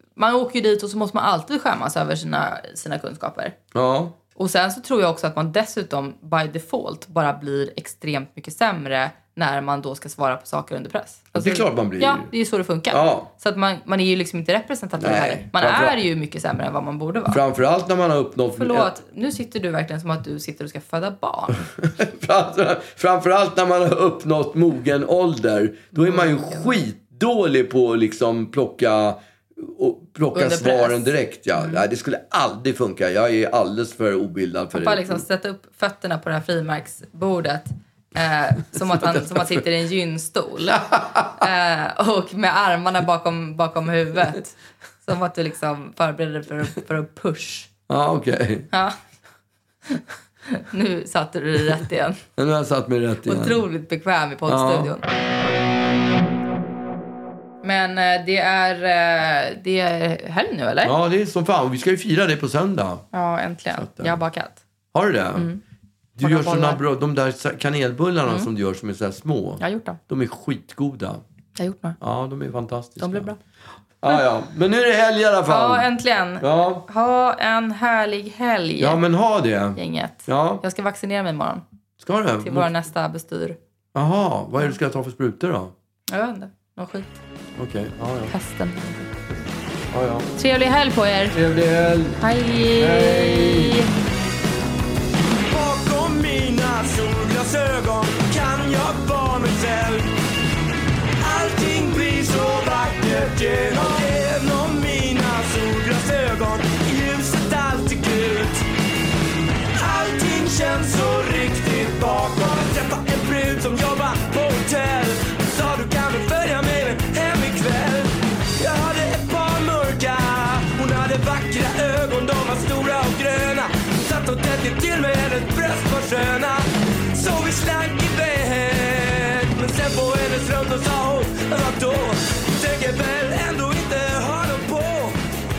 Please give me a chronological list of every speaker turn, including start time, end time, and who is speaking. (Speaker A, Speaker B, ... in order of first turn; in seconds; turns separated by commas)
Speaker A: 0.1-3.5, Speaker B: 3.7-4.1, Speaker A: 4.4-17.4, Speaker B: 11.3-12.3, Speaker B: 12.9-13.3, Speaker B: 15.0-16.0, Speaker B: 17.3-18.9, Speaker A: 18.6-21.7, Speaker B: 21.8-35.2, Speaker A: 26.0-26.8, Speaker A: 30.3-31.9, Speaker A: 34.7-40.8, Speaker B: 39.0-39.6, Speaker B: 40.7-41.4, Speaker A: 41.4-47.7, Speaker B: 47.9-48.7, Speaker A: 49.9-52.2, Speaker B: 52.4-53.6, Speaker A: 53.2-55.0, Speaker B: 54.5-54.9, Speaker A: 57.6-60.9, Speaker B: 60.8-63.0, Speaker A: 63.1-64.6, Speaker B: 63.7-64.1, Speaker B: 64.9-65.5, Speaker A: 65.3-65.6, Speaker B: 66.2-71.2, Speaker A: 66.2-66.8, Speaker A: 69.6-70.0, Speaker A: 71.6-72.0, Speaker B: 72.0-73.3, Speaker A: 73.0-73.4, Speaker B: 74.0-75.9, Speaker A: 75.5-79.0, Speaker B: 76.4-76.8, Speaker B: 78.8-80.6, Speaker A: 79.8-81.6, Speaker B: 82.0-82.7, Speaker A: 82.4-83.6, Speaker B: 83.9-85.7, Speaker A: 86.1-87.1, Speaker B: 87.6-88.3, Speaker A: 88.3-89.1, Speaker B: 89.9-90.3, Speaker A: 90.4-91.3, Speaker B: 91.3-92.2, Speaker A: 92.2-93.9, Speaker B: 92.8-93.8, Speaker B: 95.7-99.8, Speaker C: 96.2-98.4, Speaker C: 98.9-100.0, Speaker C: 101.5-102.7, Speaker B: 101.7-102.7, Speaker C: 103.3-108.5, Speaker B: 103.5-105.2, Speaker B: 105.9-108.3, Speaker C: 109.9-118.0, Speaker B: 110.3-118.0, Speaker B: 118.7-123.6, Speaker C: 118.7-124.5, Speaker B: 124.2-126.5, Speaker C: 125.3-126.2, Speaker B: 127.2-132.1, Speaker C: 127.4-132.4, Speaker B: 132.6-135.0, Speaker C: 132.9-135.1